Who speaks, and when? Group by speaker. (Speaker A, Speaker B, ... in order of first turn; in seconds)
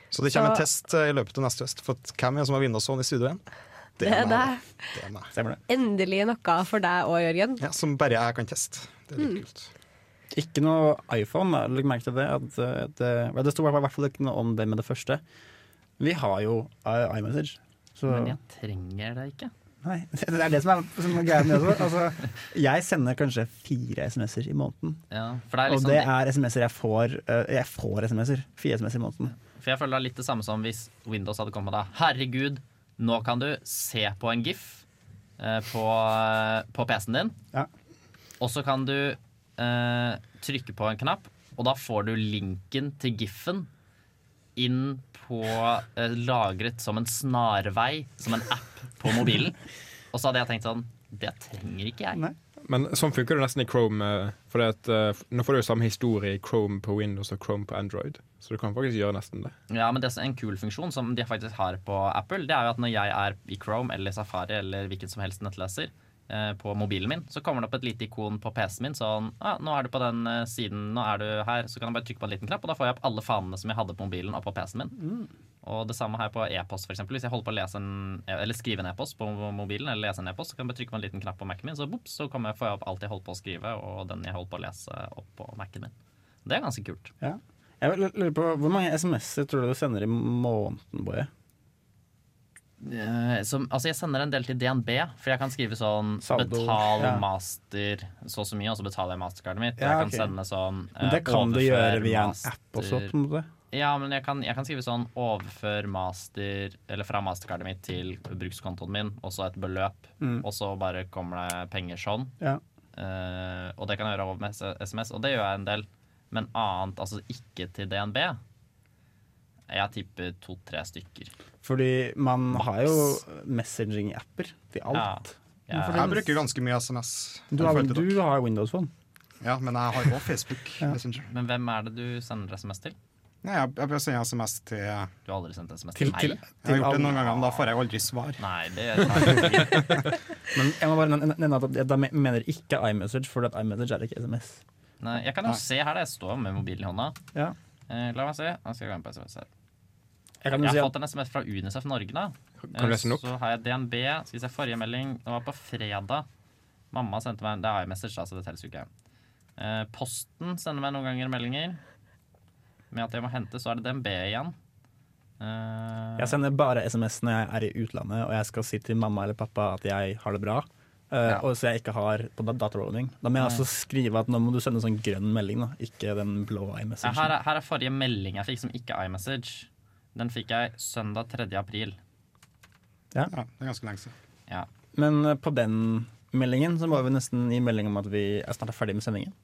Speaker A: 0.1-3.4, 4.0-5.3, 7.6-9.7, 125.9-128.2, 129.4-131.3, 133.4-135.1, 136.6-138.4, 139.2-139.9, 183.3-184.1
Speaker B: 0.3-0.7, 4.0-5.0, 5.7-7.6
Speaker C: 5.3-5.6, 10.3-15.2, 16.0-18.4, 19.8-25.0, 25.7-29.3, 75.0-75.3, 87.2-91.3, 96.2-97.2, 99.8-100.3, 101.0-103.5, 110.2-110.5, 121.6-126.4, 127.5-128.9, 136.0-137.2, 140.5-144.6, 150.4-150.9, 166.2-177.3, 184.9-189.3
Speaker D: 18.1-19.5, 25.1-26.1, 29.6-34.8, 35.4-37.3, 38.4-43.7, 44.5-49.6, 50.1-52.2, 59.7-75.0, 75.6-85.9, 86.4-87.1, 92.8-103.1, 103.7-112.3, 113.0-118.4, 119.7-121.3, 124.9-126.2, 131.3-132.9, 135.2-136.4, 137.1-137.7, 138.4-140.1, 145.0-147.2, 147.9-149.5, 150.5-156.2, 156.9-158.9, 159.6-161.8, 162.9-164.5, 165.4-166.3, 173.4-173.7, 177.0-182.0
Speaker E: 52.7-59.5, 152.6-153.2